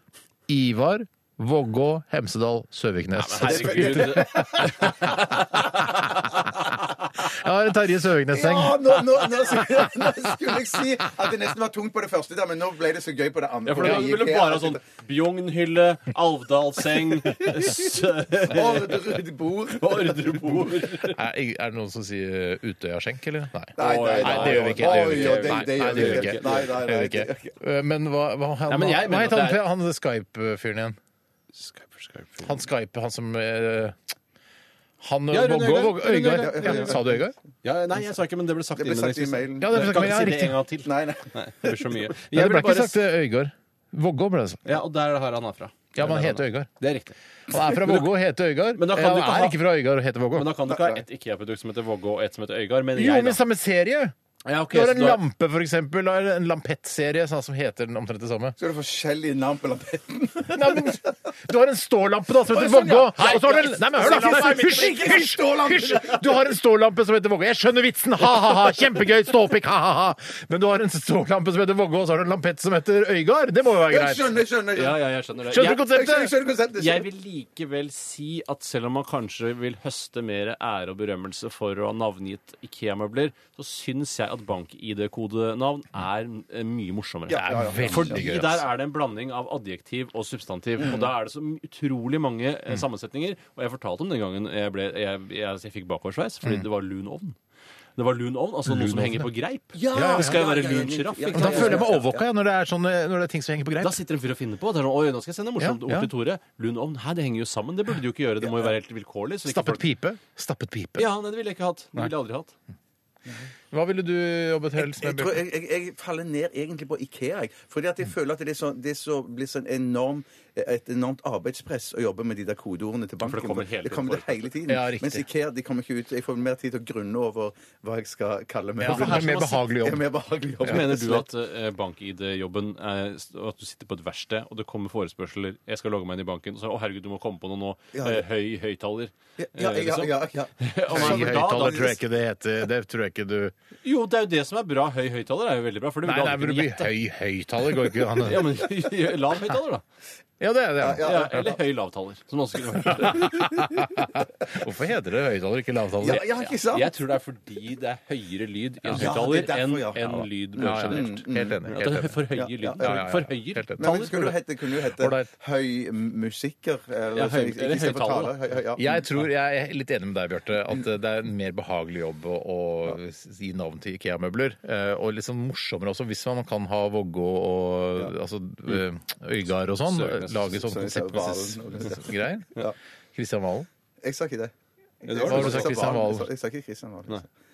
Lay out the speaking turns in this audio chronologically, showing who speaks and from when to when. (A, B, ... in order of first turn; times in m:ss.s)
0:00.5-0:06.6 A
0:03.2-0:06.3 B
0:03.5-0:04.9 C
0:07.2-0:09.3 A
0:08.3-0:14.8 C
0:13.7-0:21.2 B
0:18.4-0:20.7 C
0:21.1-0:31.0 A
0:23.8-0:27.6 C
0:23.8-0:26.8 B
0:28.7-0:29.7 B
0:31.6-0:32.6 B
0:32.4-0:34.0 A
0:35.0-0:37.4 A
0:35.3-0:37.0 B
0:36.3-0:37.2 C
0:37.6-0:43.0 B
0:38.8-0:41.7 C
0:39.6-0:40.6 A
0:42.3-0:44.8 A
0:44.6-0:48.1 B
0:45.9-0:46.7 A
0:47.5-0:50.6 A
0:48.8-0:49.6 B
0:50.4-0:53.4 B
0:50.7-0:51.0 C
0:52.9-0:54.1 A
0:54.4-0:55.2 B
0:54.7-0:58.6 A
0:58.6-1:01.1 C
1:00.5-1:14.4 A
1:02.5-1:06.5 C
1:04.1-1:04.6 B
1:13.9-1:15.0 C
1:14.7-1:16.2 B
1:15.5-1:16.3 A
1:15.7-1:17.1 C
1:16.7-1:37.4 B
1:27.3-1:28.2 C
1:27.3-1:28.7 A
1:30.8-1:31.1 C
1:38.0-1:41.8 B
1:38.6-1:39.3 A
1:39.7-1:42.3 C
1:39.9-1:40.4 A
1:41.3-1:44.0 A
1:43.8-1:49.9 B
1:45.6-1:46.1 A
1:48.4-1:48.7 C
1:49.5-1:51.1 A
1:51.0-1:52.5 B
1:53.7-1:55.4 A
1:54.8-2:11.3 C
2:03.2-2:04.6 B
2:04.7-2:05.3 A
2:08.8-2:10.1 A
2:08.8-2:09.6 B
2:10.6-2:10.9 A
2:10.6-2:21.9 B
2:17.9-2:18.3 C
2:19.4-2:22.0 C
2:20.9-2:23.5 A
2:23.8-2:26.9 B
2:26.0-2:28.6 A
2:28.2-2:29.8 B
2:30.4-2:31.5 A
2:30.8-2:31.5 C
2:31.0-2:33.6 B
2:32.8-2:36.2 A
2:36.0-2:36.9 C
2:36.1-2:44.4 B
2:38.8-2:39.1 A
2:39.0-2:41.6 C
2:40.6-2:42.3 A
2:42.4-2:43.0 C
2:42.8-2:44.2 A
2:43.8-2:49.0 C
2:44.8-2:45.3 A
2:47.1-2:48.4 B
2:48.8-3:02.6 A
2:59.9-3:00.6 B
3:00.5-3:02.8 C
3:03.2-3:03.7 A
3:04.0-3:04.5 C
3:05.0-3:07.2 C
3:05.1-3:05.9 B
3:05.2-3:06.3 A